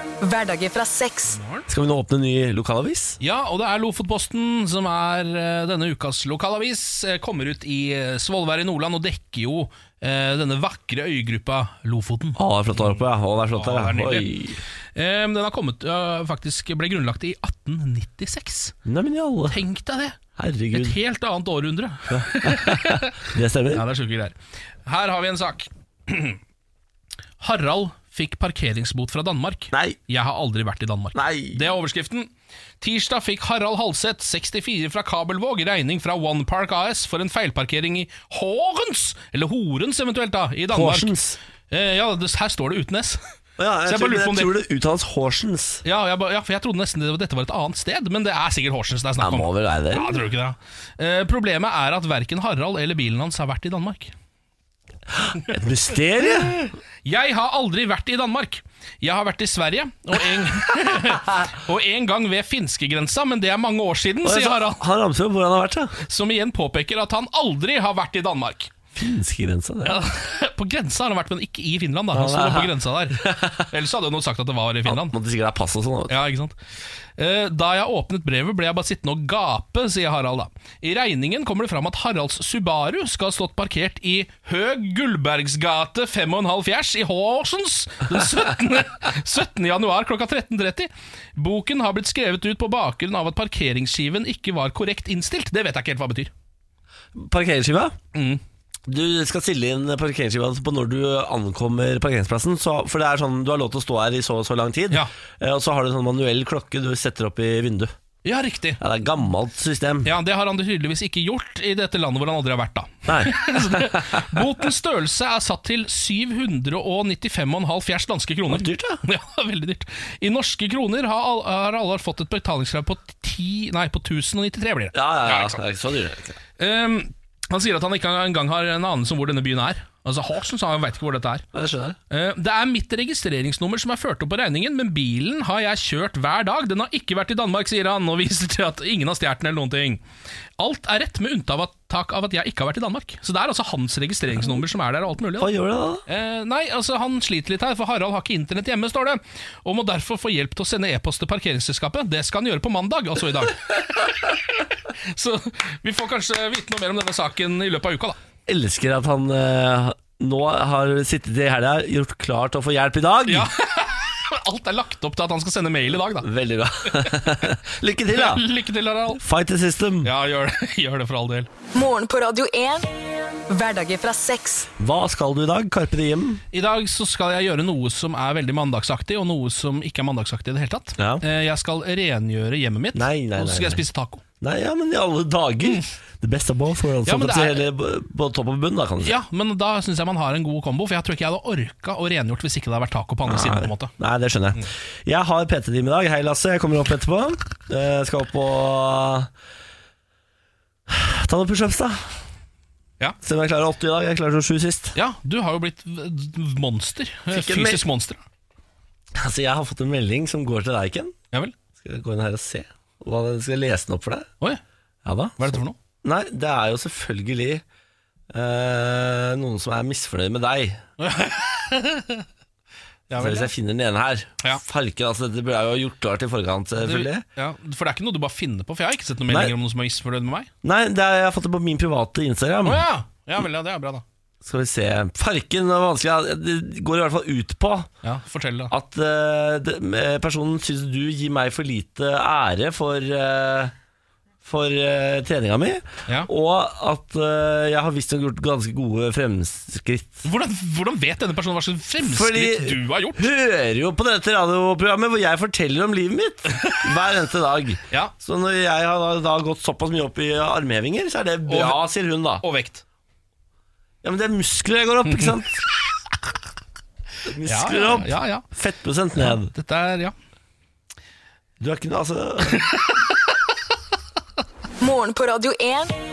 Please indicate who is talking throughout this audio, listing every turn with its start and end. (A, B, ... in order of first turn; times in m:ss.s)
0:00.2-0:01.4 A
0:01.3-0:01.7 B
0:01.7-0:03.2 C
0:03.2-0:13.0 B
0:12.4-0:14.6 C
0:13.6-0:14.4 B
0:15.0-0:18.8 B
0:18.8-0:19.6 C
0:19.5-0:20.2 B
0:20.4-0:21.0 C
0:20.7-0:23.2 B
0:22.1-0:23.9 C
0:23.7-0:26.4 B
0:27.4-0:41.1 B
0:29.7-0:30.0 C
0:31.1-0:31.7 C
0:40.7-0:41.4 C
0:41.7-0:43.2 B
0:43.6-0:45.8 C
0:43.9-0:44.6 B
0:45.8-0:54.1 B
0:49.2-0:50.2 C
0:55.1-0:56.7 C
0:57.0-1:04.8 B
1:04.2-1:06.0 C
1:06.0-1:08.7 B
1:09.0-1:10.0 C
1:09.8-1:15.2 B
1:12.1-1:13.7 C
1:14.9-1:16.2 C
1:16.1-1:16.6 B
1:17.2-1:36.3 B
1:37.2-1:38.0 C
1:38.1-1:38.4 B
1:38.9-1:47.9 C
1:48.2-1:48.8 B
1:48.8-1:50.1 C
1:50.0-2:05.6 B
1:53.1-1:54.4 C
1:58.5-1:59.0 C
2:04.9-2:06.4 C
2:06.6-2:11.5 B
2:11.5-2:12.0 C
2:12.1-2:20.0 B
2:20.6-2:25.5 B
2:25.4-2:26.0 C
2:26.1-2:38.2 B
2:38.5-2:43.5 C
2:43.3-2:46.3 B
2:46.2-2:48.5 C
2:46.8-2:47.3 B
2:48.1-2:49.2 B
2:49.2-2:50.1 C
2:50.0-2:51.5 B
2:51.7-2:52.9 A
2:53.5-2:54.7 A
2:54.8-2:56.4 C
2:56.5-3:04.2 B
3:01.0-3:01.2 C
3:03.0-3:03.8 C
3:04.4-3:09.2 C
3:05.6-3:05.9 B
3:07.0-3:07.6 B
3:09.0-3:13.9 B
3:13.3-3:19.3 C
3:20.9-3:22.1 C
3:23.2-3:25.0 C
3:25.0-3:28.2 B
3:27.3-3:27.8 C
3:29.1-3:31.2 C
3:31.8-3:34.3 C
3:35.0-3:37.6 C
3:35.4-3:35.8 B
3:38.3-3:40.8 C
3:41.0-3:42.3 B
3:43.1-3:43.5 B
3:43.2-3:47.2 C
3:46.8-3:50.5 B
3:49.3-3:49.5 C
3:50.6-3:52.8 C
3:52.6-3:54.0 B
3:54.4-3:57.9 C
3:58.0-3:58.7 B
3:58.7-4:03.7 C
4:04.4-4:10.3 C
4:10.2-4:13.3 B
4:12.0-4:22.4 C
4:16.6-4:16.9 B
4:21.5-4:21.9 B
4:22.4-4:22.8 B
4:24.0-4:25.6 C
4:25.1-4:25.4 B
4:27.2-4:29.5 C
4:27.4-4:28.4 B
4:29.2-4:30.1 B
4:31.6-4:32.7 C
4:32.4-4:33.2 B
4:34.8-4:36.0 A